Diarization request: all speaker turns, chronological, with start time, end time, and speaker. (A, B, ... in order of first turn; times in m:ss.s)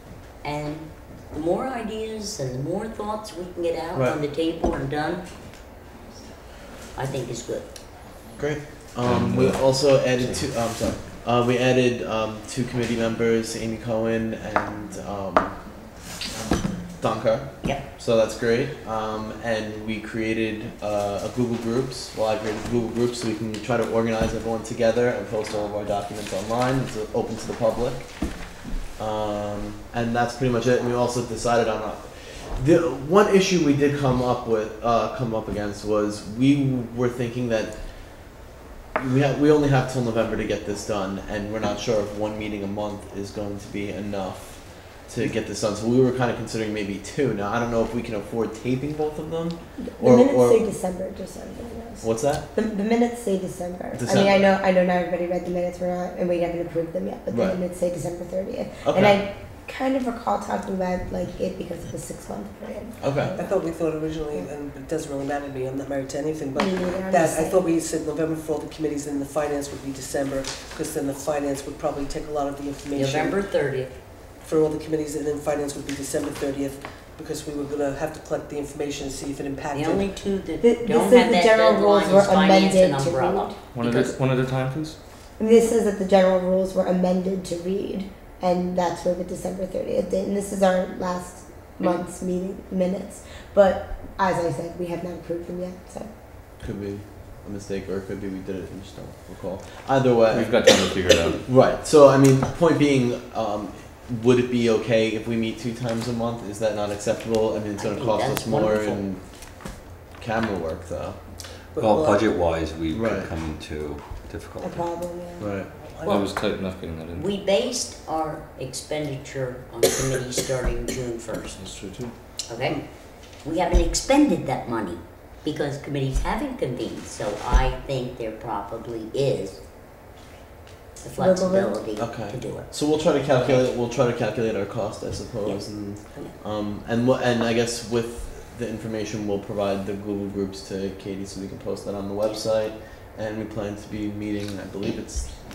0:00.4-0:05.2 A
0:03.9-0:04.2 B
0:06.9-0:07.7 A
0:08.4-0:15.6 B
0:09.1-0:09.5 C
0:16.9-0:28.1 B
0:29.0-0:37.8 B
0:39.0-0:50.7 B
0:49.8-1:03.6 D
0:52.0-0:52.5 B
0:53.9-0:54.5 B
0:57.3-0:57.6 B
0:58.8-0:59.2 B
1:03.0-1:03.3 B
1:03.4-1:13.4 E
1:06.5-1:07.6 D
1:12.9-1:13.9 A
1:14.4-1:20.1 E
1:19.7-1:24.1 A
1:20.6-1:23.5 D
1:23.7-1:25.0 F
1:25.4-1:36.1 D
1:36.6-1:40.5 B
1:40.3-1:41.4 F
1:41.4-1:49.2 B
1:47.8-1:49.0 A
1:50.2-1:51.2 B
1:51.7-1:52.2 E
1:51.8-1:54.9 C
1:52.9-1:53.3 B
1:54.6-1:55.5 D
1:55.4-1:55.7 B
1:55.7-1:56.3 E
1:56.0-1:57.3 F
1:57.1-2:01.6 A
2:01.6-2:02.1 F
2:02.5-2:02.8 A
2:03.4-2:09.6 A
2:11.0-2:13.7 A
2:11.2-2:11.8 D
2:12.0-2:25.3 B
2:15.4-2:16.3 A